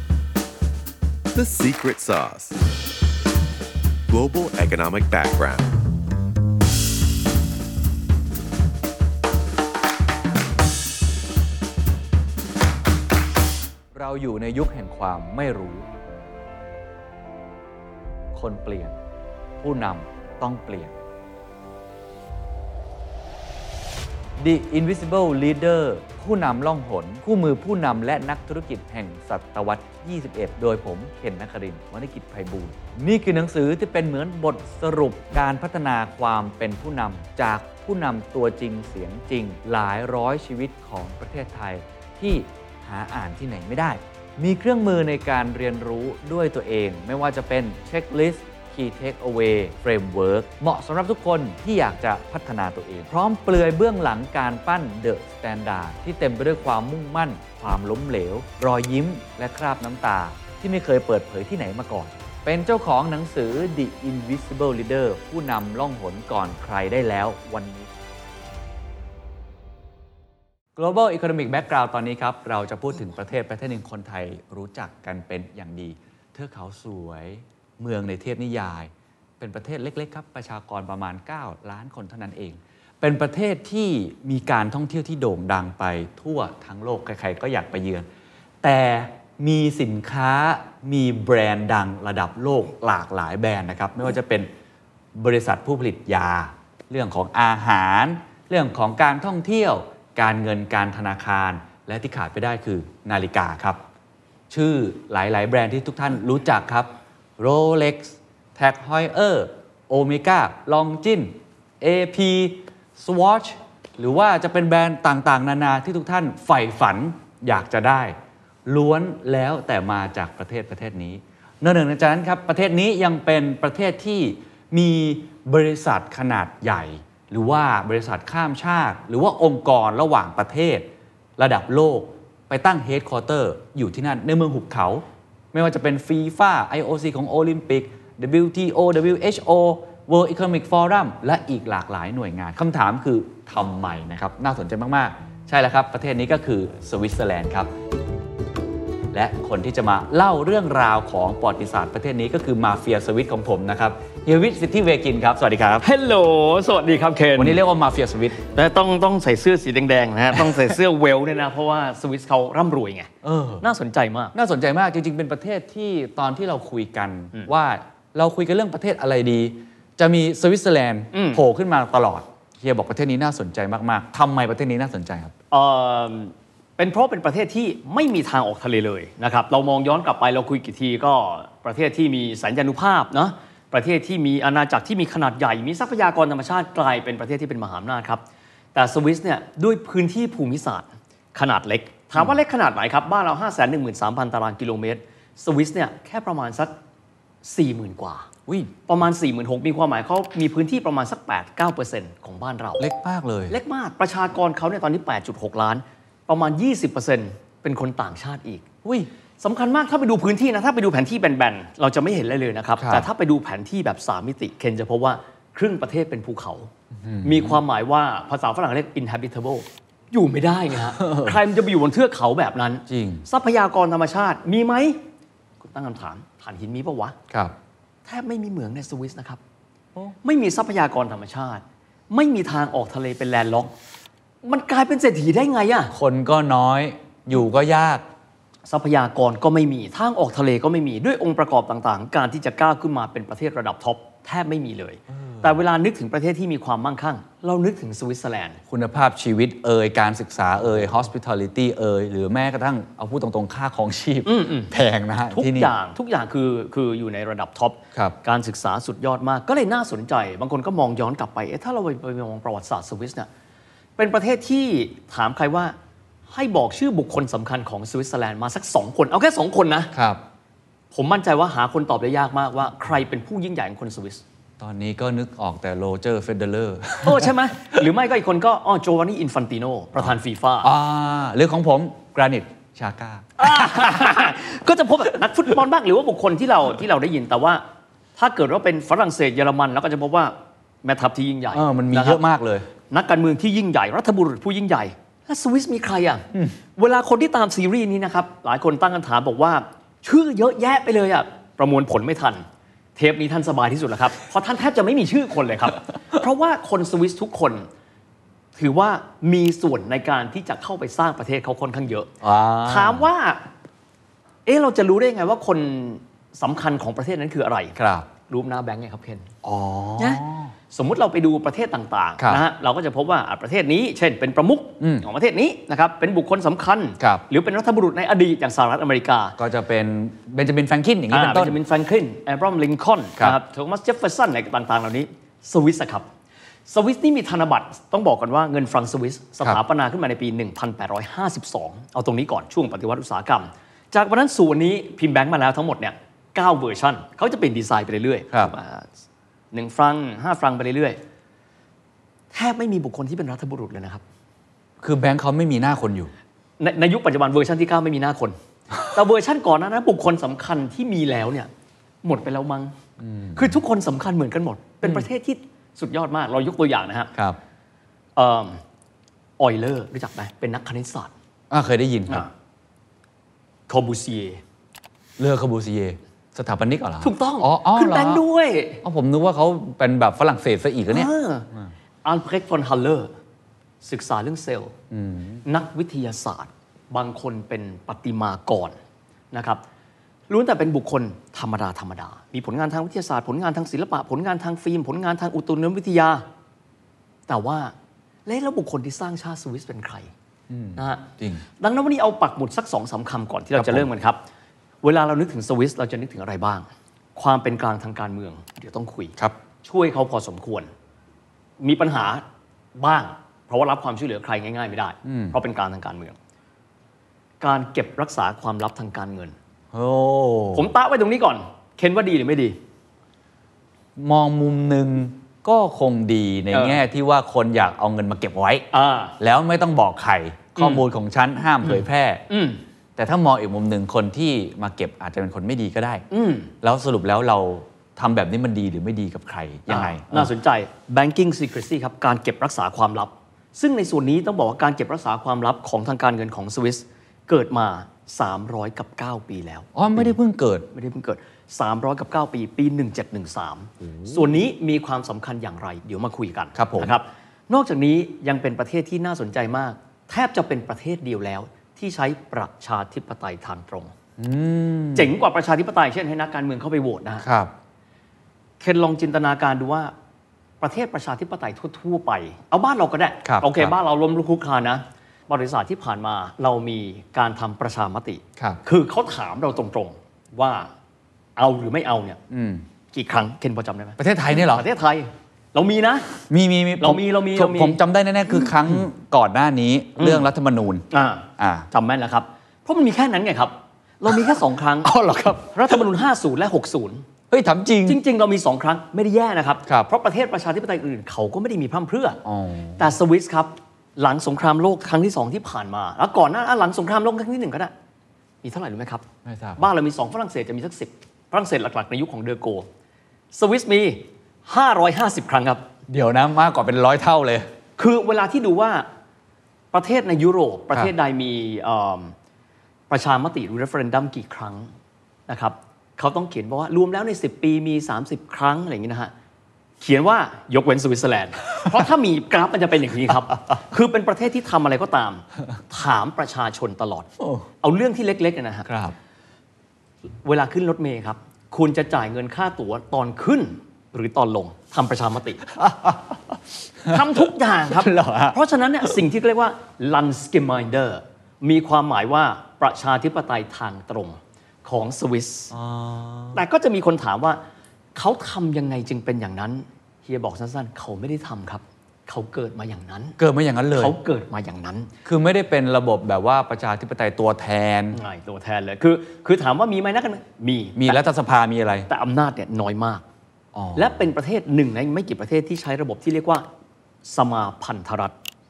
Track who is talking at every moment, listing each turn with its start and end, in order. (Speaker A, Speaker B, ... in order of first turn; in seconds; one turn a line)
Speaker A: 1.3-2.6
Speaker A: 4.1-5.7
Speaker B: 13.9-15.9
Speaker B: 18.3-18.9
Speaker B: 19.6-20.9
Speaker B: 24.4-67.9
Speaker B: 70.8-88.1
Speaker B: 88.6-94.5
Speaker B: 95.2-103.8
Speaker B: 104.5-118.2
Speaker B: 118.7-147.7
Speaker B: 149.1-155.9
Speaker C: 155.8-157.6
Speaker B: 157.4-158.4
Speaker C: 158.4-164.3
Speaker B: 163.2-163.6
Speaker B: 164.3-175.3
Speaker C: 171.1-171.4
Speaker C: 175.5-188.2
Speaker C: 188.7-196.7
Speaker C: 197.4-198.3
Speaker B: 198.5-198.7
Speaker C: 198.9-202.9
Speaker B: 202.8-203.6
Speaker C: 203.5-208.7
Speaker B: 208.8-209.1
Speaker C: 209.4-216.7
Speaker B: 212.8-213.1
Speaker B: 217.0-217.6
Speaker C: 217.2-225.0
Speaker B: 221.0-221.4
Speaker B: 222.9-223.3
Speaker C: 225.6-227.2
Speaker B: 227.3-227.6
Speaker C: 228.1-229.4
Speaker C: 230.2-233.7
Speaker C: 234.4-235.9
Speaker B: 235.9-238.0
Speaker C: 238.7-248.6
Speaker B: 245.1-245.5
Speaker B: 248.7-255.7
Speaker C: 254.2-254.7
Speaker C: 255.3-263.3
Speaker C: 264.0-265.7
Speaker C: 266.3-269.9
Speaker B: 269.9-270.2
Speaker C: 270.9-274.2
Speaker B: 274.6-277.4
Speaker C: 277.0-280.7
Speaker B: 280.6-284.2
Speaker C: 283.4-287.6
Speaker C: 288.2-290.3
Speaker C: 290.8-292.2
Speaker B: 291.5-292.7
Speaker C: 292.9-296.3
Speaker C: 296.8-302.4
Speaker C: 303.0-307.7
Speaker C: 308.6-313.5
Speaker B: 312.2-313.0
Speaker C: 314.5-319.3
Speaker B: 317.8-318.1
Speaker B: 319.4-320.5
Speaker C: 320.0-329.4
Speaker B: 324.8-325.1
Speaker B: 329.4-331.6
Speaker C: 331.1-336.1
Speaker C: 336.7-348.9
Speaker C: 349.5-351.0
Speaker C: 352.3-354.0
Speaker B: 354.8-356.1
Speaker C: 356.6-361.5
Speaker C: 362.0-362.7
Speaker B: 363.0-363.6
Speaker C: 363.4-367.1
Speaker C: 368.2-368.6
Speaker C: 369.4-371.1
Speaker B: 371.5-372.3
Speaker C: 373.7-374.4
Speaker B: 375.2-378.2
Speaker C: 377.0-378.8
Speaker B: 378.8-381.7
Speaker C: 380.9-381.5
Speaker C: 382.0-383.1
Speaker C: 383.8-384.7
Speaker B: 384.9-385.4
Speaker C: 385.4-388.8
Speaker C: 389.3-389.6
Speaker C: 390.3-396.2
Speaker C: 397.3-397.7
Speaker C: 398.3-400.1
Speaker B: 400.5-401.4
Speaker C: 400.8-401.1
Speaker C: 401.6-404.2
Speaker B: 403.6-403.9
Speaker C: 404.8-410.7
Speaker C: 411.6-412.2
Speaker C: 412.8-416.2
Speaker B: 415.1-415.4
Speaker C: 417.4-419.4
Speaker B: 419.7-420.7
Speaker C: 420.5-422.6
Speaker B: 424.0-428.7
Speaker C: 426.5-426.8
Speaker C: 428.7-429.2
Speaker B: 429.2-432.2
Speaker C: 430.6-430.8
Speaker C: 431.6-432.6
Speaker B: 433.0-436.1
Speaker C: 436.1-436.5
Speaker B: 436.6-440.3
Speaker C: 439.7-450.1
Speaker B: 449.8-450.7
Speaker C: 450.7-463.9
Speaker B: 453.8-454.3
Speaker B: 456.6-456.9
Speaker B: 464.2-465.1
Speaker C: 464.9-467.2
Speaker B: 467.2-467.5
Speaker C: 468.6-469.9
Speaker C: 470.6-480.7
Speaker B: 473.2-473.7
Speaker C: 481.4-482.2
Speaker B: 482.3-482.6
Speaker C: 482.9-486.1
Speaker B: 484.0-484.6
Speaker B: 486.3-490.9
Speaker C: 486.8-487.8
Speaker C: 490.0-490.3
Speaker C: 490.9-494.9
Speaker B: 491.4-491.7
Speaker B: 494.1-495.8
Speaker C: 495.5-497.1
Speaker B: 497.3-498.0
Speaker C: 497.9-502.2
Speaker B: 502.2-502.9
Speaker C: 502.8-507.7
Speaker C: 508.4-509.1
Speaker B: 509.2-509.6
Speaker C: 509.6-512.7
Speaker C: 513.3-515.7
Speaker B: 515.9-517.5
Speaker C: 517.8-518.9
Speaker C: 519.7-522.1
Speaker C: 522.9-524.7
Speaker C: 525.3-529.1
Speaker C: 529.8-537.1
Speaker C: 537.6-538.7
Speaker B: 538.7-539.0
Speaker C: 540.2-545.5
Speaker B: 545.5-546.3
Speaker C: 546.8-555.5
Speaker B: 546.9-548.4
Speaker B: 555.5-556.4
Speaker C: 556.3-557.4
Speaker C: 558.0-563.2
Speaker B: 563.2-564.0
Speaker C: 563.7-564.9
Speaker B: 565.0-568.0
Speaker C: 567.9-571.0
Speaker B: 570.8-571.9
Speaker C: 571.9-573.0
Speaker B: 573.5-573.9
Speaker C: 573.8-576.5
Speaker C: 577.0-578.2